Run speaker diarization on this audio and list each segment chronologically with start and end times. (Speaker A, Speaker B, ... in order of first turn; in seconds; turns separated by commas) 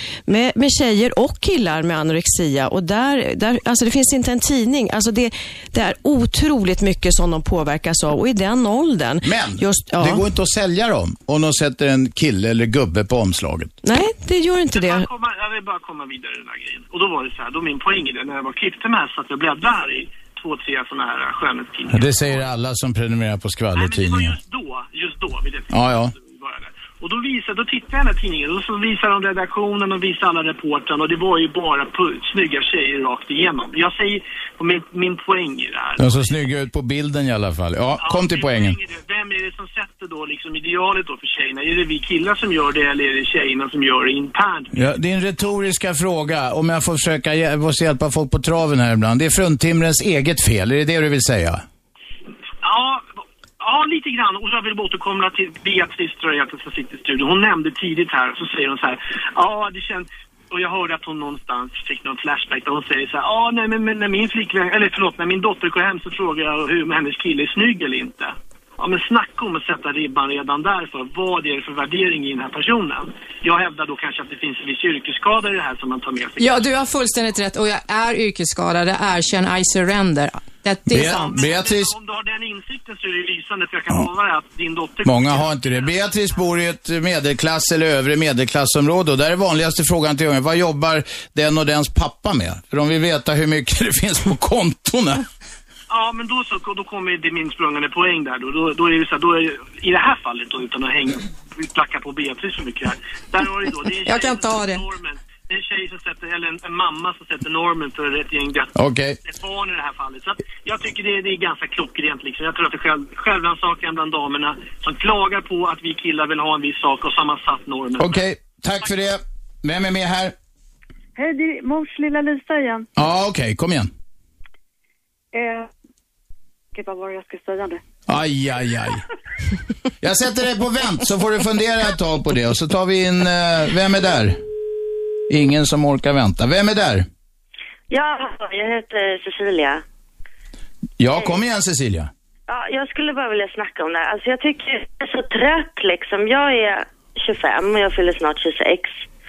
Speaker A: 0.3-10.2, Speaker B: 9.2-13.7, Speaker A: 13.8-15.1, Speaker C: 14.7-22.5, Speaker B: 21.9-24.4, Speaker C: 23.7-36.3, Speaker B: 25.7-26.1, Speaker B: 36.0-38.8, Speaker C: 38.0-44.7, Speaker B: 44.7-51.6, Speaker C: 52.6-53.0, Speaker C: 53.6-76.6, Speaker D: 76.4-81.4, Speaker B: 80.9-81.9, Speaker C: 81.0-86.4, Speaker B: 85.0-95.2, Speaker C: 95.9-118.2, Speaker D: 104.0-104.8, Speaker B: 108.8-109.2, Speaker B: 118.0-120.3, Speaker E: 121.2-122.9, Speaker B: 123.0-123.9, Speaker E: 125.3-125.7, Speaker E: 126.7-127.8, Speaker B: 128.1-129.0, Speaker B: 130.0-134.4, Speaker B: 135.3-137.1, Speaker F: 137.9-139.8, Speaker B: 141.0-142.1, Speaker F: 142.5-149.1